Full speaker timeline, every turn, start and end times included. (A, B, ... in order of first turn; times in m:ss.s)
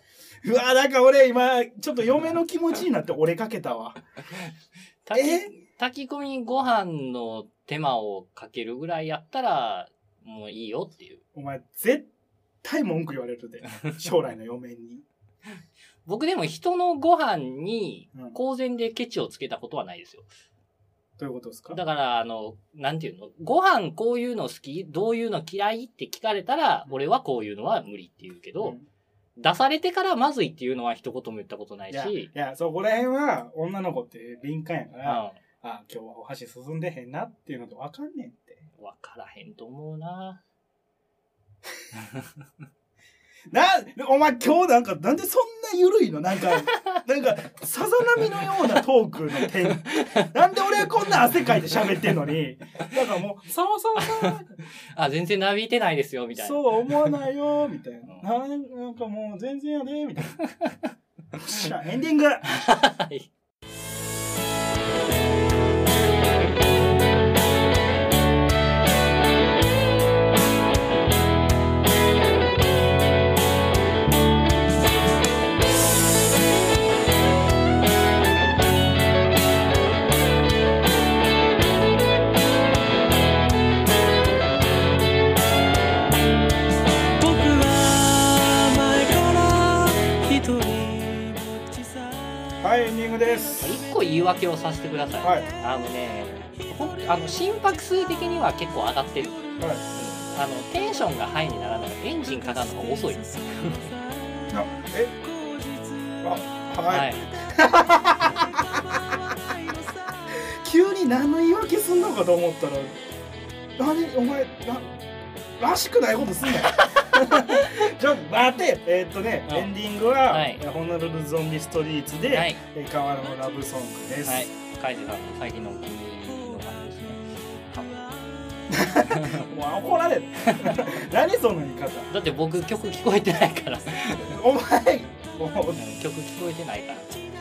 0:00.4-0:04.0 A
0:05.0-0:11.2 B
0:05.1-0:05.5 A
0:11.4-0:12.1 A
0:12.6-0:15.0 A
0:16.1-0:20.3 B
0:21.2-0:21.8 A
0:21.7-0:28.8 B
0:28.6-0:28.9 A
0:29.4-0:32.3 B
0:31.9-0:38.6 A
0:35.0-0:35.4 B
0:38.8-0:40.4 B
0:43.5-0:54.6 A
0:46.7-0:47.0 B
0:49.8-0:50.3 B
0:54.0-0:54.4 B
0:54.9-0:57.1 B
0:56.4-1:00.4 A
1:00.5-1:00.8 B
1:01.4-1:02.5 A
1:02.5-1:03.3 B
1:27.2-1:32.4 C
1:32.6-1:33.7 A
1:33.6-1:39.4 B
1:35.2-1:35.5 A
1:39.6-1:39.8 A
1:40.0-1:43.8 B
1:43.6-1:46.4 C
1:44.5-1:45.1 A
1:46.2-1:49.1 A
1:46.9-1:47.2 B
1:49.3-1:50.1 C
1:50.3-1:53.0 A
1:53.8-1:54.9 A
1:55.6-2:04.5 A
1:56.8-1:57.6 B
2:00.3-2:00.6 B
2:02.3-2:02.6 B
2:04.3-2:08.1 B
2:08.7-2:12.1 A
2:09.1-2:09.5 B
2:10.5-2:10.8 B
2:12.1-2:14.4 B
2:14.2-2:15.8 A
2:15.8-2:17.1 B